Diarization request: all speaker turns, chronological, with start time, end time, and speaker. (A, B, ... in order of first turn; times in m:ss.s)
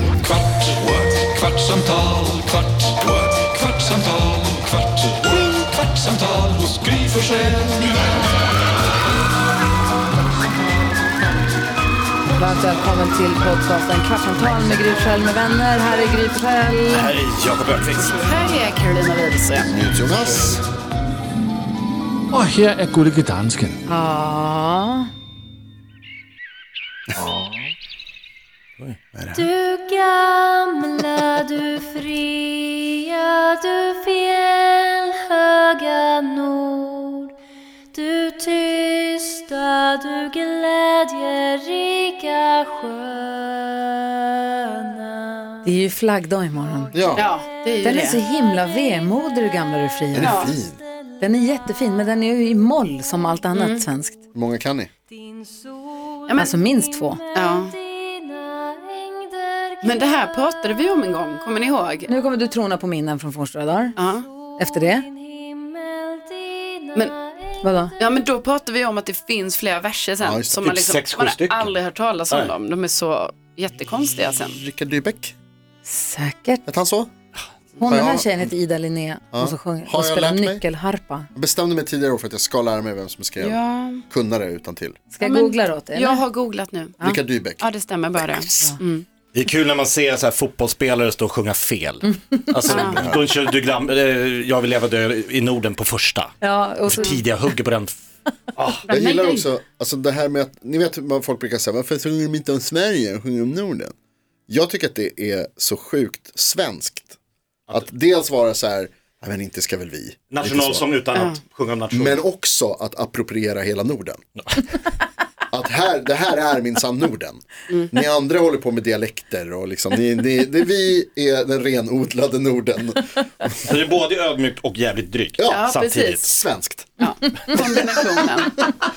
0:00.2-0:07.9 A
0:12.3-0:17.1 B
0:16.9-0:18.4 C
0:18.2-0:19.7 D
0:19.7-0:20.6 E
0:22.3-0:23.8 F
0:23.9-0:25.1 B
0:27.2-0:27.7 F
0:29.1-0:29.5 E
0:29.3-0:37.3 G
0:37.9-0:45.6 G
0:45.6-0:47.0 B
0:46.9-0:47.3 E
0:47.2-0:48.2 D
0:47.8-0:50.5 B
0:50.1-0:50.8 E
0:50.2-0:50.6 D
0:51.2-0:54.2 B
0:53.6-0:53.9 D
0:54.3-0:54.9 E
0:55.4-1:00.5 G
0:56.4-0:57.2 B
0:57.3-0:57.8 D
0:59.8-1:02.1 D
1:02.1-1:04.0 B
1:04.0-1:04.3 D
1:04.5-1:07.6 G
1:04.6-1:05.1 B
1:07.6-1:08.0 B
1:08.0-1:14.6 D
1:10.2-1:10.6 E
1:10.6-1:11.8 C
1:14.5-1:15.3 E
1:15.8-1:16.6 B
1:16.6-1:17.1 E
1:17.8-1:21.3 B
1:17.9-1:18.5 E
1:19.3-1:20.6 E
1:21.3-1:25.0 E
1:23.4-1:24.0 D
1:25.1-1:26.2 B
1:25.2-1:27.0 D
1:27.0-1:27.6 E
1:27.6-1:29.0 D
1:28.2-1:28.7 E
1:29.3-1:38.0 C
1:32.7-1:33.0 D
1:32.8-1:33.2 E
1:36.4-1:37.2 B
1:38.6-1:38.9 C
1:38.9-1:39.4 D
1:38.9-1:43.9 E
1:44.5-1:47.2 E
1:47.7-1:50.9 E
1:50.3-1:52.2 C
1:51.9-1:54.2 E
1:55.5-2:03.2 E
2:03.6-2:06.3 C
2:05.4-2:07.0 E
2:05.5-2:06.2 D
2:07.0-2:08.7 D